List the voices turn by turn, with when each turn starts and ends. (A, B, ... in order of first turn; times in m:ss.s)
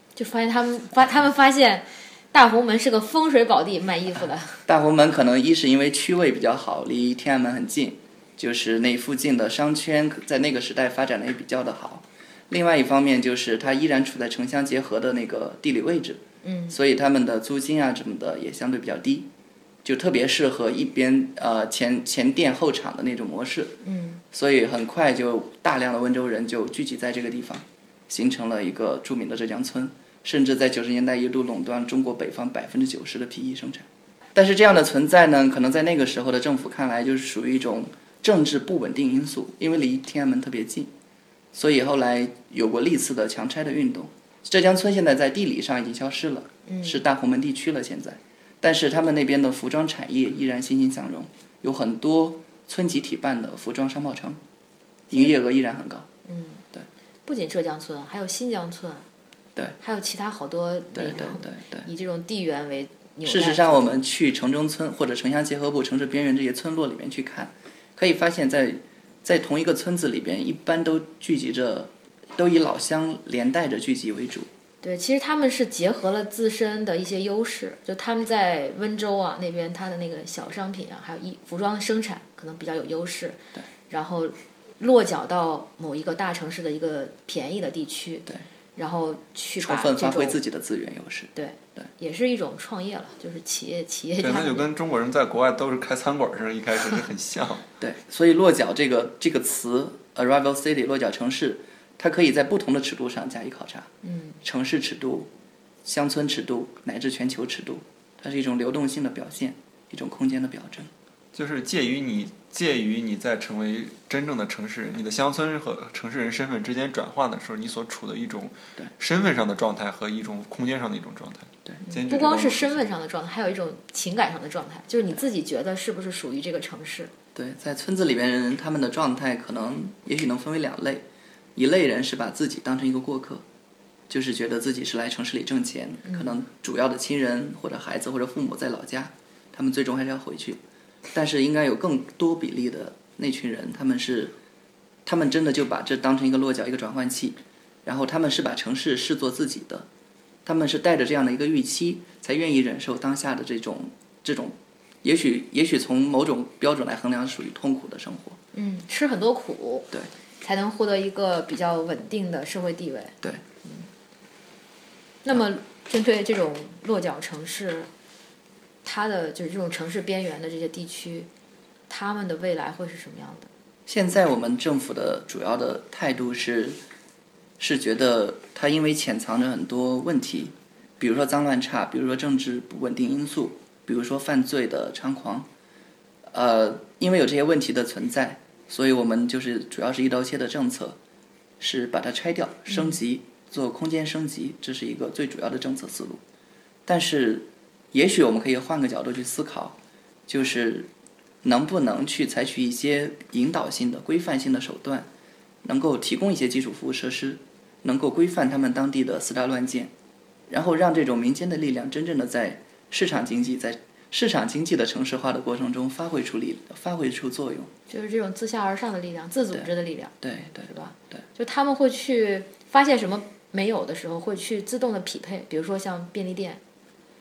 0:00.2-0:04.6 A
0:04.6-0:19.3 B
0:16.4-0:16.8 A
0:19.8-0:23.8 B
0:23.8-0:24.2 A
0:24.3-0:40.9 B
0:41.5-0:54.4 B
0:46.7-0:47.0 A
0:55.1-0:56.1 B
0:56.2-0:56.6 A
0:57.2-0:59.0 A
0:59.8-1:04.0 A
1:00.9-1:01.9 B
1:03.2-1:14.5 B
1:14.8-1:23.4 A
1:23.9-1:30.4 A
1:29.6-1:31.9 B
1:31.3-1:34.7 A
1:34.2-1:37.7 C
1:37.8-1:43.9 B
1:44.0-1:44.4 A
1:44.4-1:45.3 B
1:45.8-1:50.9 B
1:51.3-2:02.8 C
2:01.8-2:07.1 A
2:07.3-2:11.0 B
2:11.6-2:13.4 B
2:14.1-2:20.6 B
2:16.0-2:16.4 A
2:21.1-2:24.4 B
2:25.0-2:29.9 B
2:30.4-2:38.4 B
2:38.5-2:43.9 A
2:45.2-2:47.9 A
2:48.8-2:51.3 A
2:51.9-2:53.5 A
2:53.9-2:56.8 B
2:57.6-3:05.5 B
3:06.3-3:11.0 B
3:11.6-3:16.2 B
3:12.7-3:13.0 A
3:16.8-3:20.9 B
3:21.4-3:25.1 B
3:25.6-3:29.9 B
3:30.5-3:37.7 B
3:37.9-3:46.6 A
3:40.2-3:41.2 B